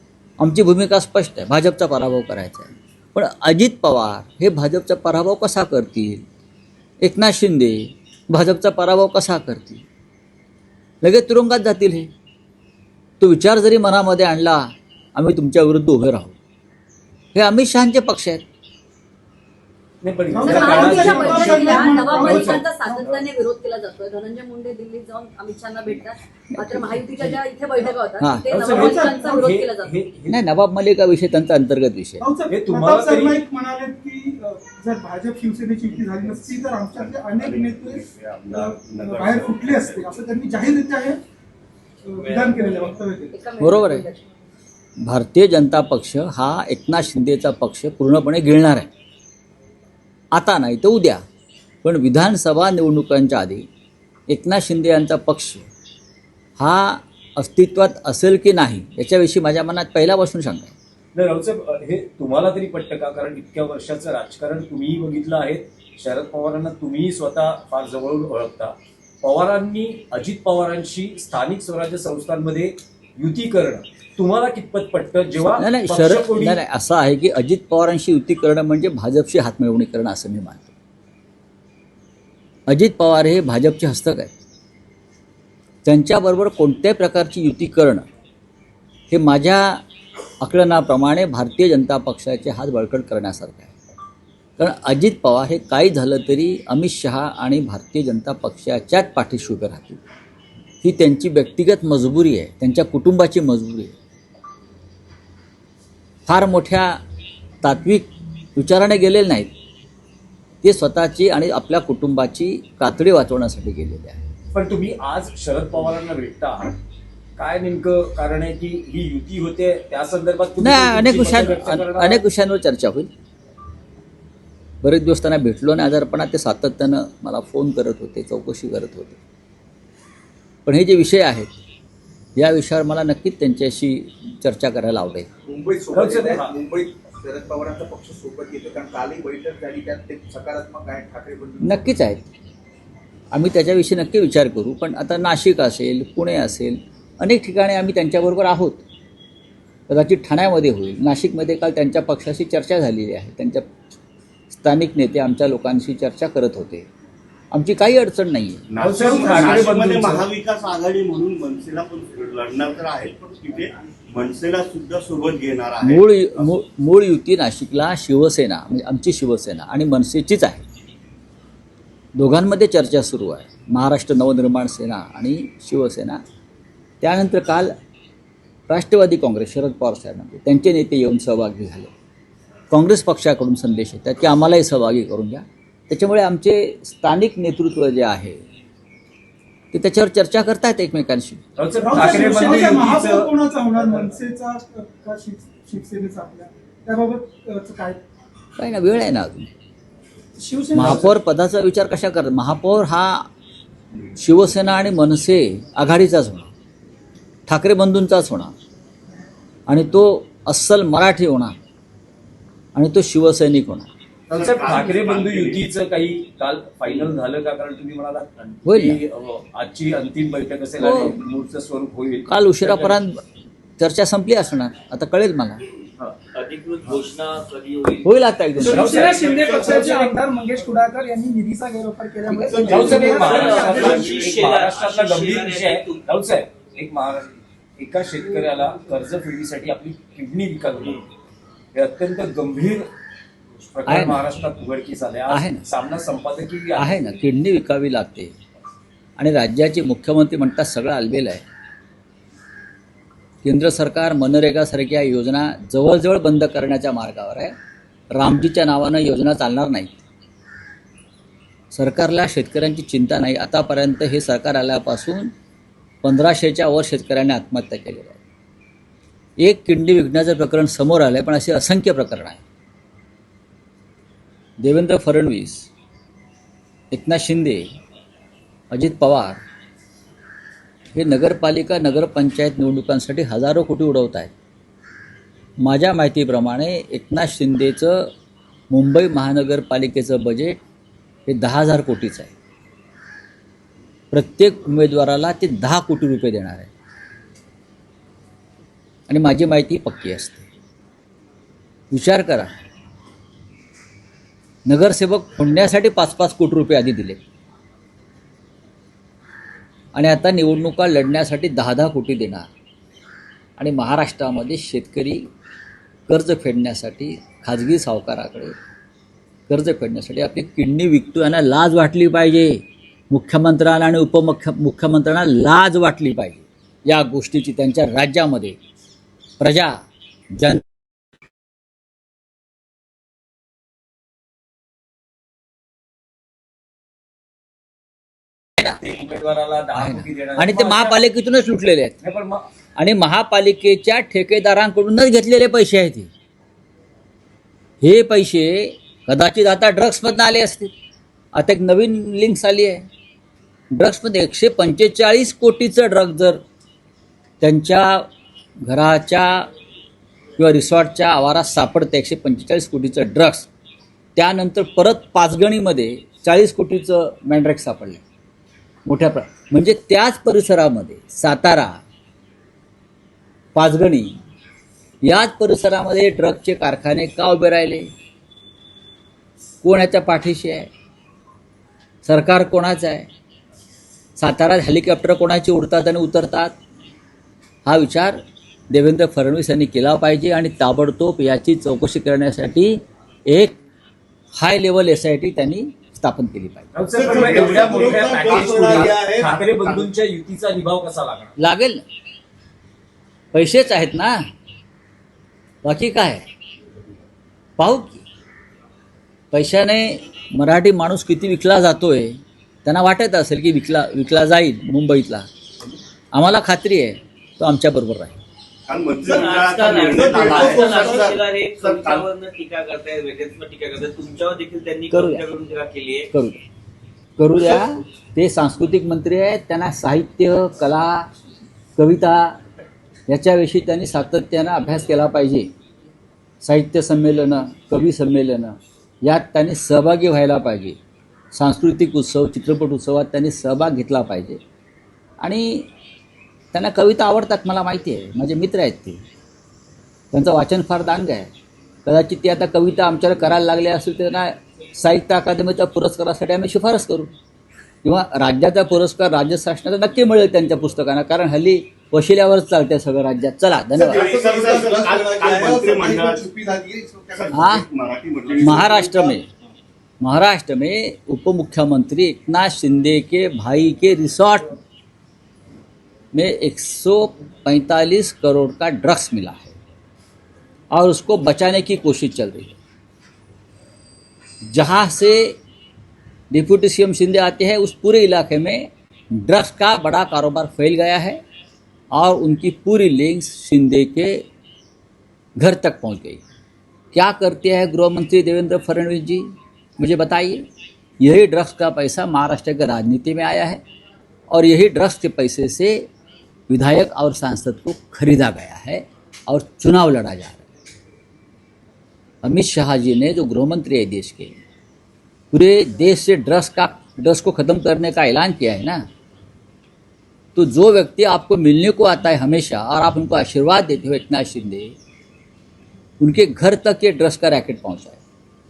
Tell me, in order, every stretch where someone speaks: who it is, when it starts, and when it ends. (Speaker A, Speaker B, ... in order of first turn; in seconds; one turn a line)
Speaker A: 0.4-6.2
Speaker A: 7.0-9.8
Speaker A: 11.0-12.1
Speaker A: 13.2-16.4
Speaker A: 17.3-18.4
Speaker B: 20.0-23.2
Speaker C: 20.3-23.2
Speaker D: 20.4-30.0
Speaker A: 28.2-28.5
Speaker B: 28.5-30.4
Speaker C: 28.7-29.5
Speaker A: 30.3-32.3
Speaker C: 32.2-41.2
Speaker B: 32.5-33.4
Speaker E: 36.3-40.1
Speaker C: 42.1-43.3
Speaker F: 42.2-43.0
Speaker D: 43.3-44.3
Speaker A: 43.6-44.1
Speaker A: 45.0-48.9
Speaker A: 50.3-51.2
Speaker A: 51.8-53.7
Speaker A: 54.3-55.7
Speaker A: 56.6-60.7
Speaker B: 61.1-76.6
Speaker A: 75.6-80.7
Speaker A: 82.7-84.3
Speaker A: 85.8-88.0
Speaker A: 89.1-89.8
Speaker A: 90.4-93.7
Speaker A: 94.6-100.0
Speaker A: 100.8-103.9
Speaker A: 106.3-107.0
Speaker A: 107.6-109.5
Speaker A: 110.6-114.2
Speaker B: 114.5-116.8
Speaker B: 117.4-122.2
Speaker A: 120.6-123.1
Speaker A: 124.8-129.2
Speaker A: 130.7-131.5
Speaker A: 132.4-135.3
Speaker G: 135.5-141.8
Speaker B: 135.9-136.6
Speaker A: 141.6-142.3
Speaker A: 143.3-148.8
Speaker A: 149.9-153.7
Speaker A: 154.5-156.9
Speaker A: 157.5-158.6
Speaker E: 158.7-166.1
Speaker B: 158.8-160.3
Speaker C: 159.0-159.4
Speaker A: 165.8-170.6
Speaker A: 172.2-176.2
Speaker A: 177.0-177.7
Speaker A: 178.7-181.9
Speaker A: 182.7-188.4
Speaker A: 189.7-191.4
Speaker B: 191.6-193.3
Speaker C: 191.8-198.0
Speaker A: 198.6-199.5
Speaker C: 200.4-201.1
Speaker A: 200.7-203.3
Speaker A: 204.2-206.5
Speaker A: 207.5-208.5
Speaker A: 209.7-211.5
Speaker A: 212.8-213.9
Speaker E: 214.3-215.7
Speaker B: 214.3-223.0
Speaker A: 218.7-219.0
Speaker A: 220.8-221.2
Speaker A: 222.3-223.2
Speaker A: 223.8-225.6
Speaker F: 226.2-228.1
Speaker A: 228.0-229.1
Speaker C: 228.6-234.0
Speaker B: 228.6-230.1
Speaker A: 232.3-232.6
Speaker E: 232.5-233.2
Speaker B: 232.7-241.1
Speaker F: 233.2-236.1
Speaker E: 233.8-234.1
Speaker B: 241.7-242.9
Speaker B: 243.6-247.2
Speaker A: 243.9-244.2
Speaker A: 245.3-245.6
Speaker A: 246.8-248.3
Speaker A: 249.2-251.4
Speaker A: 253.4-257.5
Speaker A: 258.1-260.0
Speaker A: 261.7-265.3
Speaker A: 266.0-268.2
Speaker A: 269.4-272.4
Speaker A: 274.6-275.7
Speaker A: 276.9-277.7
Speaker A: 278.7-279.4
Speaker A: 280.9-284.3
Speaker A: 285.6-288.1
Speaker A: 288.7-290.6
Speaker A: 291.3-292.3
Speaker A: 294.1-296.7
Speaker A: 299.1-300.5
Speaker A: 301.9-302.5
Speaker A: 304.7-307.2
Speaker A: 309.9-312.5
Speaker A: 313.6-315.2
Speaker A: 316.1-318.6
Speaker A: 319.5-328.6
Speaker A: 329.4-329.8
Speaker A: 330.3-330.6
Speaker B: 338.8-341.0
Speaker A: 339.8-342.0
Speaker B: 342.0-342.4
Speaker A: 342.8-346.1
Speaker A: 347.8-350.7
Speaker A: 351.3-352.9
Speaker A: 353.7-356.4
Speaker A: 357.4-358.1
Speaker A: 358.7-359.4
Speaker A: 360.4-363.5
Speaker A: 364.2-368.0
Speaker A: 368.9-371.8
Speaker A: 373.6-374.1
Speaker A: 375.0-377.9
Speaker A: 379.6-380.7
Speaker A: 382.0-383.1
Speaker A: 384.2-386.5
Speaker A: 387.6-388.2
Speaker A: 388.7-393.6
Speaker A: 394.4-396.7
Speaker B: 396.7-401.4
Speaker E: 397.0-399.8
Speaker G: 397.3-398.1
Speaker A: 401.4-401.8
Speaker A: 403.3-404.2
Speaker A: 405.6-406.2
Speaker A: 407.6-408.0
Speaker A: 409.3-415.3
Speaker A: 416.1-418.2
Speaker E: 418.7-422.1
Speaker F: 419.0-426.1
Speaker G: 419.9-421.1
Speaker A: 424.9-425.3
Speaker A: 426.1-426.4
Speaker A: 427.2-431.1
Speaker A: 431.8-432.4
Speaker A: 433.1-435.5
Speaker A: 436.4-440.8
Speaker A: 441.3-444.4
Speaker A: 445.2-445.7
Speaker A: 446.5-449.0
Speaker A: 450.1-451.3
Speaker A: 451.9-457.1
Speaker A: 457.8-464.1
Speaker E: 463.8-466.3
Speaker G: 463.9-467.4
Speaker E: 467.1-469.1
Speaker A: 467.3-467.7
Speaker A: 468.4-469.3
Speaker A: 470.0-474.6
Speaker A: 476.1-479.6
Speaker A: 480.7-482.6
Speaker A: 484.5-485.4
Speaker A: 486.3-491.2
Speaker A: 491.9-494.2
Speaker A: 495.4-496.2
Speaker A: 496.9-499.3
Speaker A: 499.8-500.5
Speaker A: 501.0-503.6
Speaker A: 504.3-505.9
Speaker A: 506.5-510.4
Speaker A: 512.2-514.4
Speaker A: 515.3-518.8
Speaker A: 520.4-524.7
Speaker A: 526.0-528.0